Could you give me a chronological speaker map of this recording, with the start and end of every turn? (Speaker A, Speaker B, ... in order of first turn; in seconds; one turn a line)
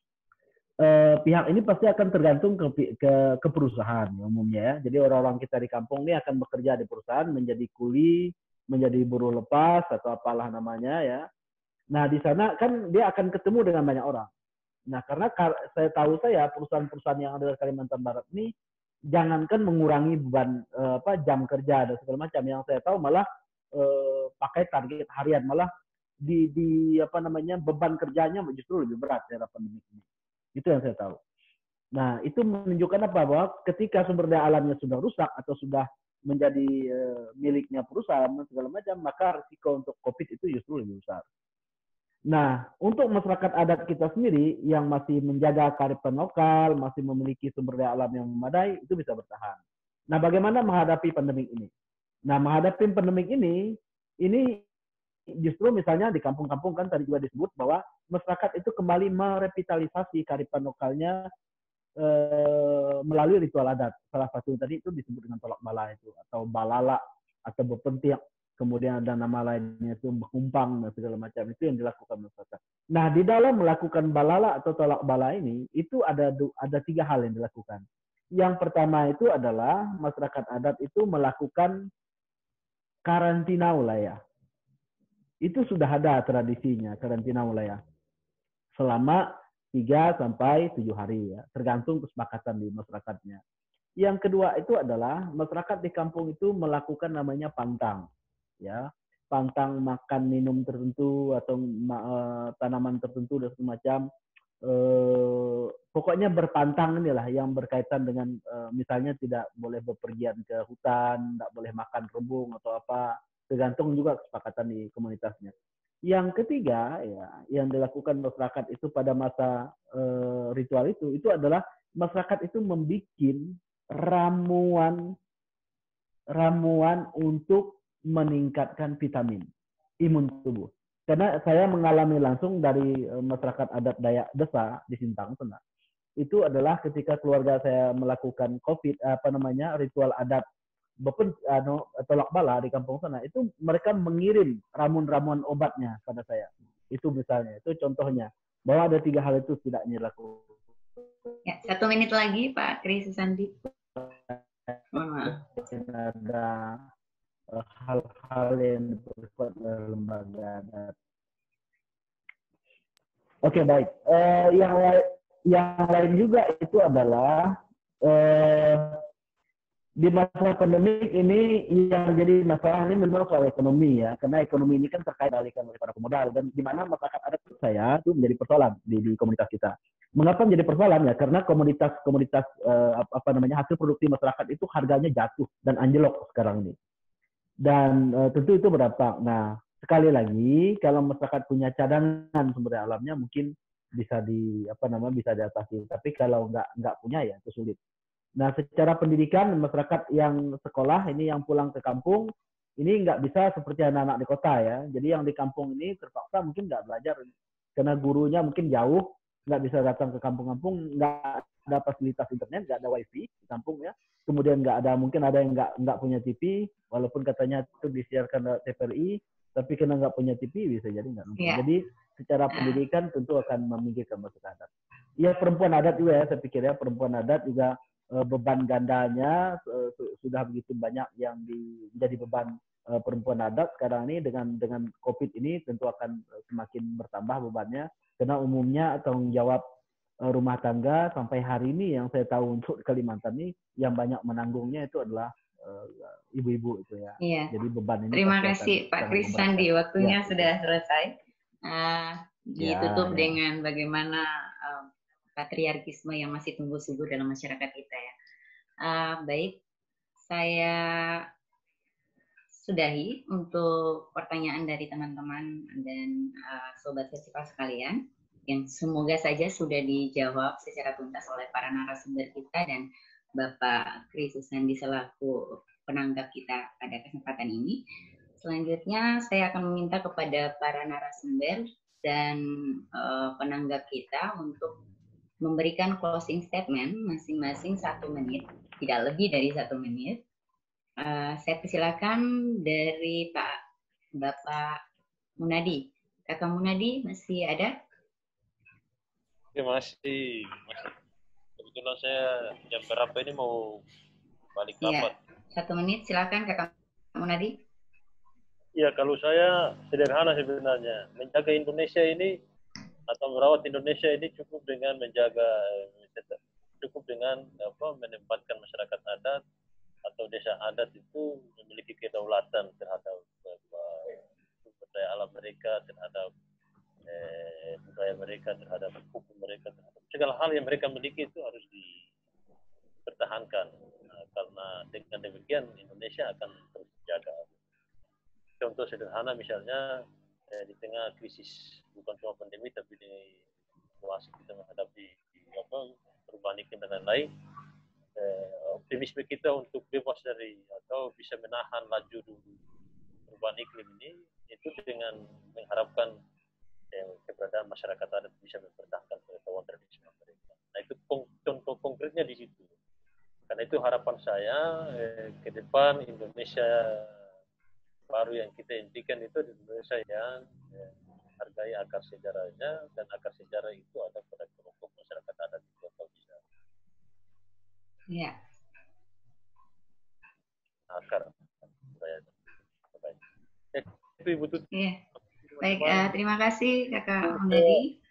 Speaker A: 0.8-11.3
Speaker A: 11.9-14.3
Speaker A: 14.9-18.5
Speaker A: 19.1-25.7
Speaker A: 26.2-30.0
Speaker A: 30.6-31.2
Speaker A: 31.9-41.2
Speaker A: 42.3-49.6
Speaker A: 50.1-51.7
Speaker A: 52.3-54.6
Speaker A: 55.4-61.3
Speaker A: 62.0-77.8
Speaker A: 78.3-81.8
Speaker A: 83.0-84.2
Speaker A: 85.4-87.8
Speaker A: 88.7-93.4
Speaker A: 94.0-98.1
Speaker A: 98.6-104.0
Speaker A: 104.6-115.5
Speaker A: 116.1-125.1
Speaker A: 126.3-129.5
Speaker A: 130.0-135.6
Speaker A: 136.2-140.4
Speaker A: 141.0-151.3
Speaker B: 151.4-153.7
Speaker A: 153.9-156.8
Speaker B: 154.9-155.4
Speaker A: 157.5-160.9
Speaker A: 163.4-169.0
Speaker A: 170.0-186.8
Speaker A: 187.6-197.8
Speaker A: 198.4-207.2
Speaker A: 207.8-224.7
Speaker B: 221.4-221.6
Speaker B: 222.5-222.8
Speaker A: 225.2-239.6
Speaker A: 240.2-250.5
Speaker B: 247.2-247.5
Speaker B: 248.1-251.1
Speaker B: 251.7-258.1
Speaker A: 252.6-253.4
Speaker B: 258.8-259.6
Speaker B: 260.3-261.2
Speaker B: 262.5-272.9
Speaker B: 273.4-277.8
Speaker B: 278.4-282.4
Speaker B: 282.9-284.7
Speaker B: 285.4-290.2
Speaker B: 291.0-293.6
Speaker B: 294.2-294.8
Speaker B: 295.4-297.7
Speaker C: 299.6-300.9
Speaker C: 301.6-303.8
Speaker C: 304.6-305.1
Speaker B: 304.8-307.6
Speaker C: 308.8-312.3
Speaker C: 313.1-319.4
Speaker C: 320.1-326.3
Speaker C: 327.1-332.0
Speaker C: 333.1-337.5
Speaker C: 338.6-339.9
Speaker C: 340.5-343.4
Speaker C: 344.0-347.3
Speaker C: 348.2-352.4
Speaker C: 353.3-356.1
Speaker C: 356.9-362.7
Speaker C: 363.5-367.1
Speaker C: 368.1-370.9
Speaker C: 371.4-376.4
Speaker B: 378.1-378.4
Speaker C: 380.9-381.3
Speaker C: 381.9-382.3
Speaker C: 382.9-383.2
Speaker C: 383.7-384.7
Speaker B: 384.7-385.0
Speaker C: 385.5-386.1
Speaker B: 385.6-387.9
Speaker C: 387.3-387.8